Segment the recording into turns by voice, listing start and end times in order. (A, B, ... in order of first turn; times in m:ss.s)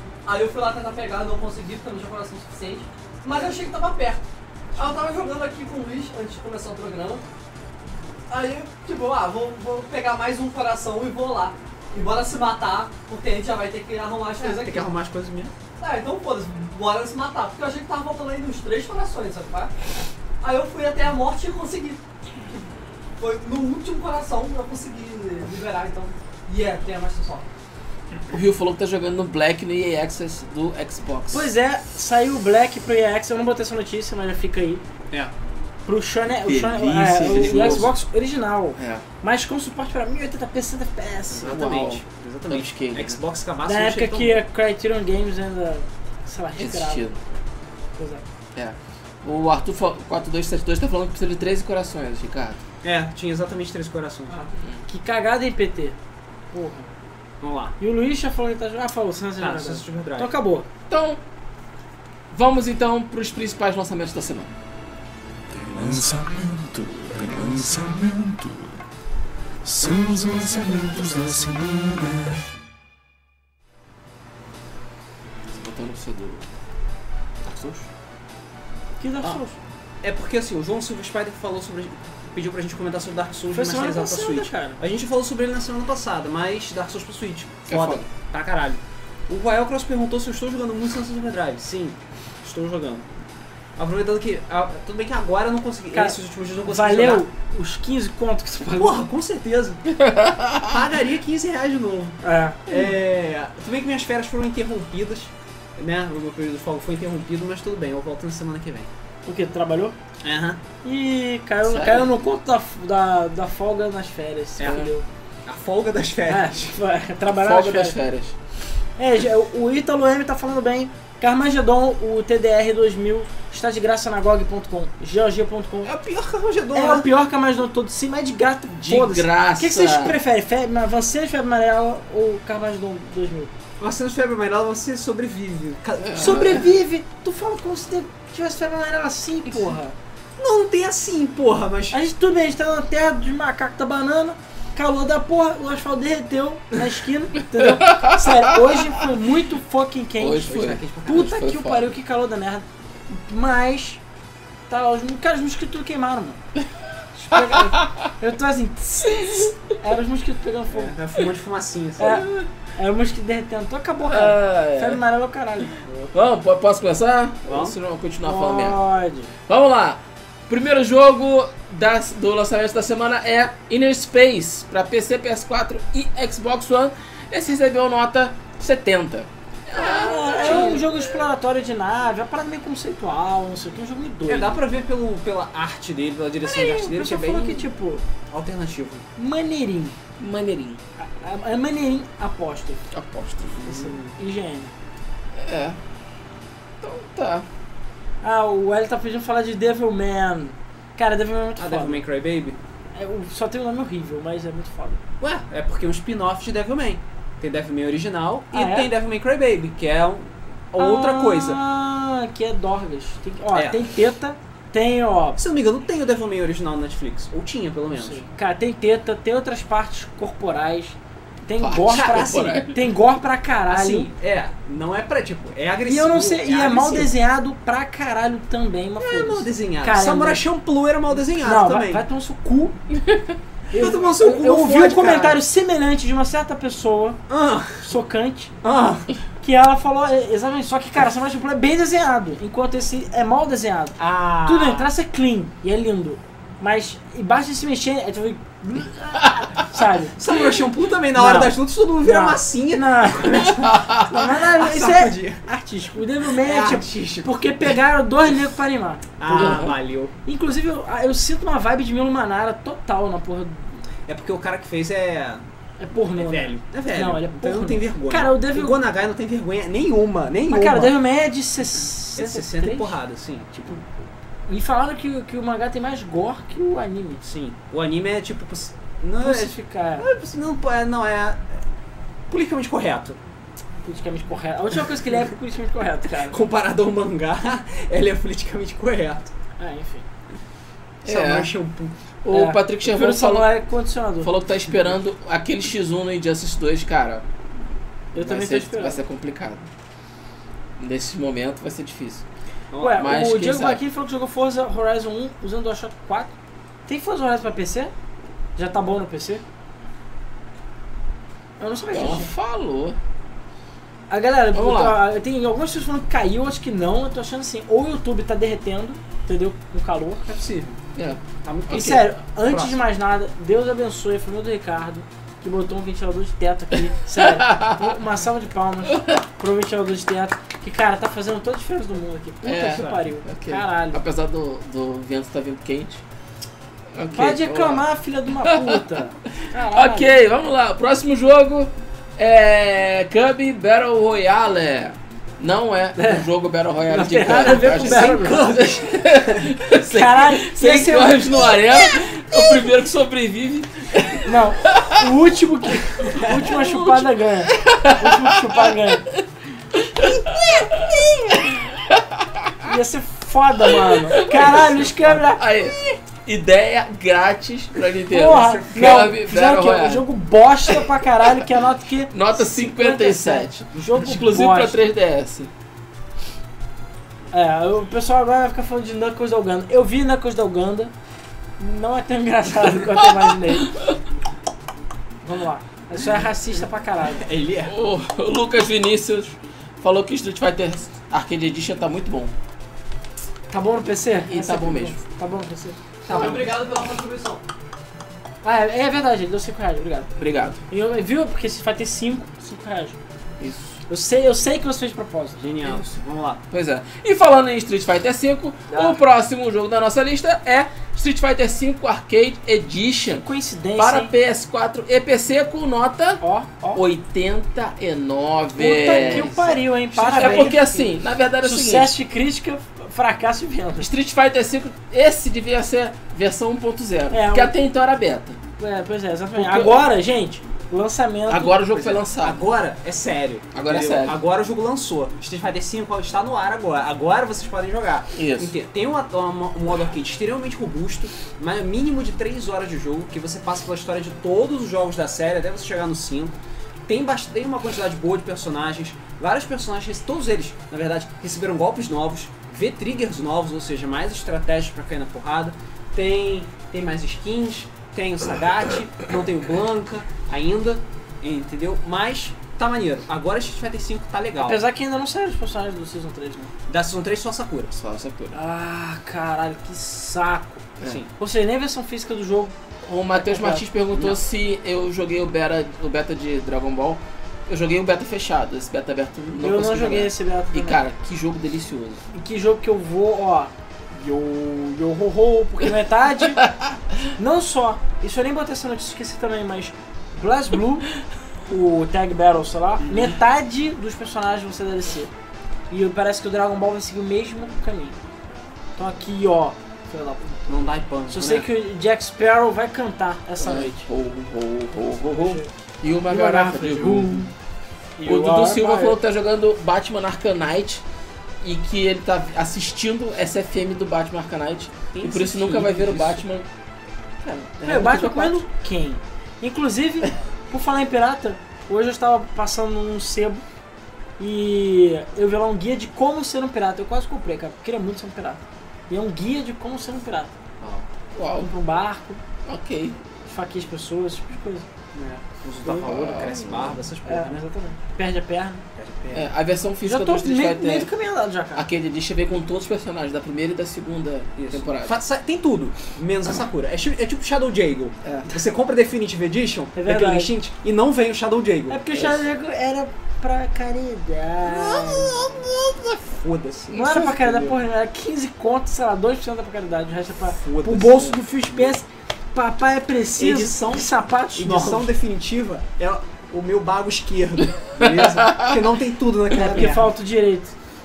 0:00.2-0:04.2 A
0:04.7-0:07.2 A
0:08.3-0:14.9 A
0:14.4-0:15.5 B
0:15.8-0:19.7 A
0:20.4-0:22.0 A
0:23.2-0:27.4 A
0:28.3-0:31.5 C
0:31.3-0:34.8 D
0:35.8-0:41.6 D
0:36.4-0:38.0 C
0:37.3-0:37.8 B
0:38.8-0:39.0 C
0:41.3-0:44.4 B
0:41.5-0:43.2 C
0:43.6-0:47.1 D
0:46.6-0:47.2 C
0:48.0-0:48.2 D
0:48.5-0:52.6 C
0:52.8-0:54.3 B
0:54.3-0:54.5 A
0:54.9-0:56.0 D
0:56.5-0:56.9 D
0:57.4-0:57.7 B
0:57.8-1:00.7 D
0:59.4-1:00.3 B
1:00.9-1:01.2 C
1:02.3-1:04.5 C
1:05.5-1:08.7 E
1:09.6-1:12.4 E
1:15.5-1:16.5 C
1:17.4-1:17.8 C
1:19.0-1:19.6 D
1:20.0-1:33.0 B
1:23.5-1:24.8 D
1:27.7-1:28.0 C
1:33.8-1:37.2 B
1:35.9-1:39.0 D
1:38.8-1:39.9 B
1:39.9-1:40.7 C
1:40.6-1:48.9 B
1:42.2-1:42.6 D
1:49.2-1:50.0 D
1:50.2-1:50.6 B
1:50.8-1:55.0 D
1:51.6-1:52.1 C
1:54.6-1:54.9 B
1:55.4-1:56.7 B
1:56.3-1:58.0 D
1:57.3-1:58.3 C
1:59.0-2:05.9 D
2:05.8-2:07.1 B
2:06.7-2:13.5 D
2:08.8-2:10.2 C
2:13.8-2:16.6 B
2:16.0-2:16.6 C
2:16.2-2:20.0 D
2:20.4-2:22.0 B
2:21.9-2:34.0 D
2:27.5-2:28.9 C
2:30.2-2:31.9 C
2:30.4-2:31.3 B
2:34.7-2:36.4 D
2:37.2-2:40.9 D
2:37.3-2:38.1 C
2:39.2-2:39.5 C
2:40.7-2:42.4 B
2:42.0-2:45.8 D
2:44.0-2:45.0 C
2:46.1-2:48.8 C
2:47.5-2:47.8 B
2:48.2-2:49.3 D
2:49.5-3:01.0 C
2:59.8-3:04.6 D
3:04.3-3:07.6 B
3:06.4-3:08.0 D
3:08.3-3:09.0 B
3:09.2-3:10.0 D
3:10.2-3:10.8 C
3:11.0-3:12.8 D
3:12.9-3:13.8 C
3:13.6-3:14.2 B
3:13.6-3:14.7 D
3:15.3-3:15.8 C
3:16.8-3:17.4 C
3:18.2-3:22.0 D
3:21.6-3:22.6 B
3:22.9-3:25.0 D
3:25.2-3:31.6 B
3:28.5-3:28.9 D
3:30.8-3:35.4 D
3:33.5-3:33.9 B
3:35.4-3:38.3 B
3:37.9-3:44.1 D
3:41.6-3:42.8 C
3:41.9-3:42.6 B
3:43.7-3:47.1 B
3:45.8-3:50.4 D
3:49.0-3:52.0 B
3:51.4-3:52.8 D
3:52.9-3:53.3 C
3:53.7-3:57.2 D
3:53.7-3:55.4 B
3:57.3-3:57.9 B
3:57.8-3:58.5 D
3:58.6-3:59.1 B
3:59.4-4:10.2 D
4:04.0-4:04.9 B
4:10.2-4:15.4 B
4:11.1-4:13.5 D
4:13.7-4:14.1 C
4:14.1-4:19.6 D
4:16.4-4:17.5 B
4:19.2-4:20.1 B
4:19.3-4:19.8 C
4:20.2-4:23.8 D
4:24.1-4:25.4 B
4:25.8-4:28.8 D
4:26.1-4:30.9 B
4:30.5-4:33.0 D
4:32.2-4:33.9 B
4:34.5-4:37.2 D
4:37.2-4:41.6 B
4:39.2-4:40.0 D
4:42.3-4:43.2 B
4:43.8-4:46.4 D
4:46.3-4:49.3 B
4:49.6-4:50.0 D
4:51.0-4:51.5 C
4:51.0-4:51.9 B
4:52.2-4:53.5 C
4:52.3-4:54.3 D
4:54.2-4:57.2 C
4:58.1-4:59.0 D
4:58.1-4:59.7 C
5:00.8-5:02.2 C
5:02.7-5:03.0 B
5:02.8-5:06.3 D
5:03.0-5:03.8 C
5:06.9-5:07.9 D
5:08.6-5:09.4 D
5:11.6-5:12.3 D
5:11.9-5:13.0 C
5:14.1-5:20.4 D
5:14.5-5:15.0 C
5:20.3-5:20.8 B
5:20.9-5:22.0 C
5:21.4-5:22.8 B
5:21.7-5:34.0 D
5:27.1-5:27.9 C
5:28.9-5:29.2 C
5:32.4-5:36.0 C
5:32.7-5:33.0 B
5:36.9-5:37.8 C
5:37.1-5:40.1 D
5:38.4-5:38.8 C
5:39.6-5:55.0 C
5:46.0-5:46.2 D
5:46.9-5:48.7 D
5:47.5-5:49.4 B
5:49.7-5:51.5 D
5:51.2-5:51.6 B
5:54.2-5:59.1 D
5:56.1-5:56.9 B
5:57.5-6:02.7 C
6:02.6-6:05.4 D
6:03.6-6:10.0 C
6:08.1-6:14.8 D
6:08.3-6:09.0 B
6:10.7-6:11.4 C
6:12.1-6:15.5 C
6:17.3-6:20.9 D
6:21.6-6:23.8 D
6:23.0-6:24.0 C
6:25.2-6:27.2 D
6:27.1-6:27.7 B
6:27.6-6:32.3 C
6:33.5-6:36.3 D
6:34.3-6:35.0 C
6:36.0-6:36.5 B
6:36.1-6:37.4 A
6:38.4-6:40.1 D
6:40.2-6:40.6 C
6:40.7-6:43.0 D
6:43.4-6:43.8 C
6:43.9-6:45.4 D
6:45.4-6:46.4 B
6:46.5-6:56.2 C
6:48.7-6:49.0 D
6:53.1-6:54.1 D
6:56.2-6:56.8 D
6:56.7-6:59.4 C
6:58.6-7:03.9 D
6:58.9-7:00.6 B
7:00.0-7:01.9 C
7:03.8-7:08.4 C
7:07.1-7:07.5 D
7:08.6-7:11.6 D
7:09.3-7:09.8 C
7:11.3-7:12.4 C
7:11.7-7:26.4 B
7:13.5-7:14.2 C
7:18.1-7:18.5 C
7:26.9-7:44.6 B
7:44.4-7:46.5 D
7:46.7-7:47.8 B
7:47.7-7:48.4 C
7:48.3-7:50.6 D
7:50.8-7:51.1 B
7:51.2-7:52.5 D
7:52.8-8:02.0 C
7:53.1-7:53.6 D
7:53.9-7:54.2 B
7:59.4-8:00.8 D
8:02.1-8:06.4 D
8:06.4-8:06.8 C
8:07.2-8:10.9 D
8:11.4-8:15.1 D
8:12.8-8:13.1 B
8:15.7-8:18.0 D
8:18.8-8:23.9 D
8:20.5-8:21.5 B
8:23.4-8:27.3 C
8:25.1-8:25.5 D
8:26.1-8:27.3 D
8:28.0-8:29.0 D
8:28.0-8:30.8 C
8:31.4-8:36.4 C
8:34.9-8:36.2 B
8:37.2-8:38.4 C
8:37.6-8:43.4 D
8:44.2-8:50.4 D
8:51.1-8:51.5 C
8:51.4-8:52.2 D
8:52.4-8:53.0 C
8:53.3-8:54.7 D
8:54.9-8:57.4 B
8:55.6-8:56.8 C
8:57.0-8:58.6 D
8:58.8-8:59.3 B
8:59.1-9:00.9 C
8:59.8-9:01.6 D
9:01.5-9:05.0 C
9:04.4-9:11.8 B
9:08.0-9:08.3 C
9:09.7-9:10.3 D
9:11.7-9:15.3 D
9:11.9-9:12.2 C
9:14.4-9:17.6 B
9:16.7-9:24.9 D
9:20.4-9:21.8 B
9:23.2-9:29.9 B
9:27.8-9:28.6 C
9:29.3-9:30.5 D